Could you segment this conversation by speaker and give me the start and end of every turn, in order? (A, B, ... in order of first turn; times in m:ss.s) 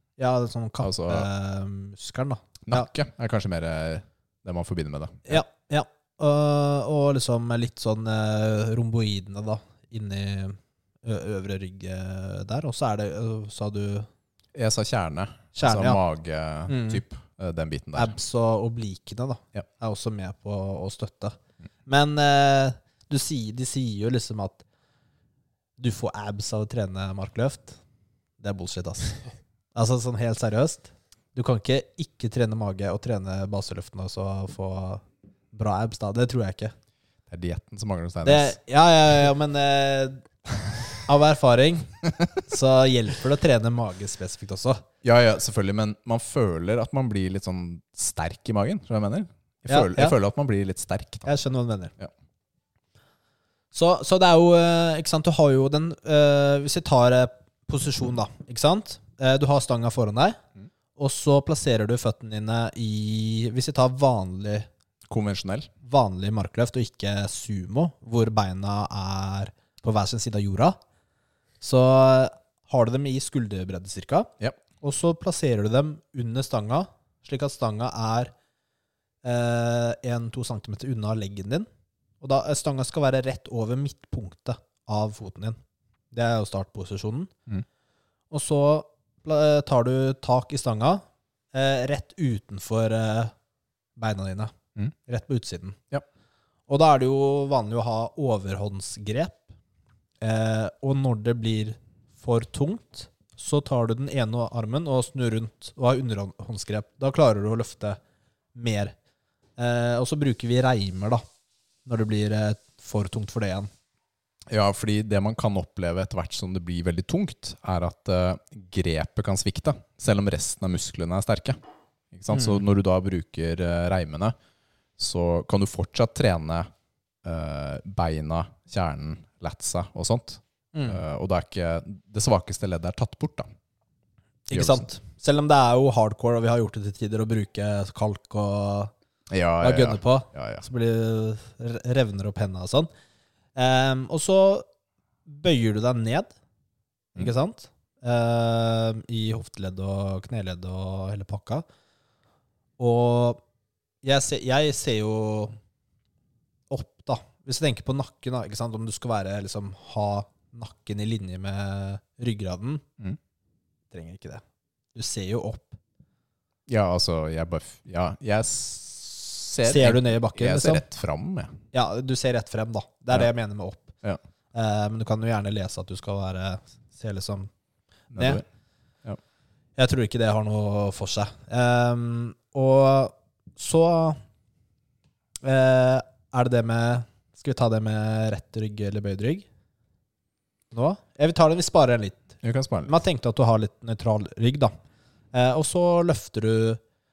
0:00.2-0:02.9 A
0:00.8-0:01.3 B
0:02.7-0:05.4 B
0:05.3-0:14.1 A
0:14.5-0:18.2 B
0:15.6-0:16.0 A
0:16.7-0:17.0 A
0:18.0-0:24.6 A
0:25.8-0:27.8 A
0:28.4-0:29.2 A
0:29.8-0:36.7 A
0:37.3-0:38.6 B
0:38.2-0:40.3 A
0:40.9-0:44.8 A
0:45.0-0:51.3 B
0:49.7-0:50.2 A
0:51.2-0:51.9 A
0:53.7-1:00.4 A
1:01.0-1:04.7 A
1:05.1-1:05.7 B
1:05.8-1:10.8 A
1:11.6-1:18.3 A
1:19.2-1:21.7 A
1:22.2-1:25.6 A
1:26.1-1:27.3 A
1:28.3-1:33.3 A
1:34.0-1:34.5 A
1:35.1-1:35.8 A
1:36.7-1:39.5 A
1:40.2-1:48.0 A
1:48.6-1:49.0 A
1:49.6-1:51.2 A
1:51.8-1:53.7 A
1:54.5-2:01.6 B
2:02.1-2:04.4 B
2:02.3-2:02.6 A
2:05.0-2:06.7 B
2:07.2-2:13.5 B
2:10.7-2:11.0 A
2:14.5-2:18.9 A
2:14.5-2:14.9 B
2:19.3-2:20.6 B
2:19.6-2:22.9 A
2:23.6-2:24.6 A
2:25.3-2:26.3 A
2:27.2-2:31.6 A
2:32.8-2:33.4 A
2:34.0-2:35.6 A
2:36.7-2:42.8 A
2:43.9-2:44.4 A
2:45.0-2:45.8 A
2:46.7-2:51.6 B
2:49.6-2:50.8 A
2:51.7-2:54.0 A
2:54.5-2:57.5 A
2:58.1-2:58.4 B
2:58.2-2:58.4 A
2:59.8-3:04.2 A
3:05.4-3:09.5 A
3:10.7-3:14.7 A
3:12.4-3:12.9 B
3:15.3-3:16.8 A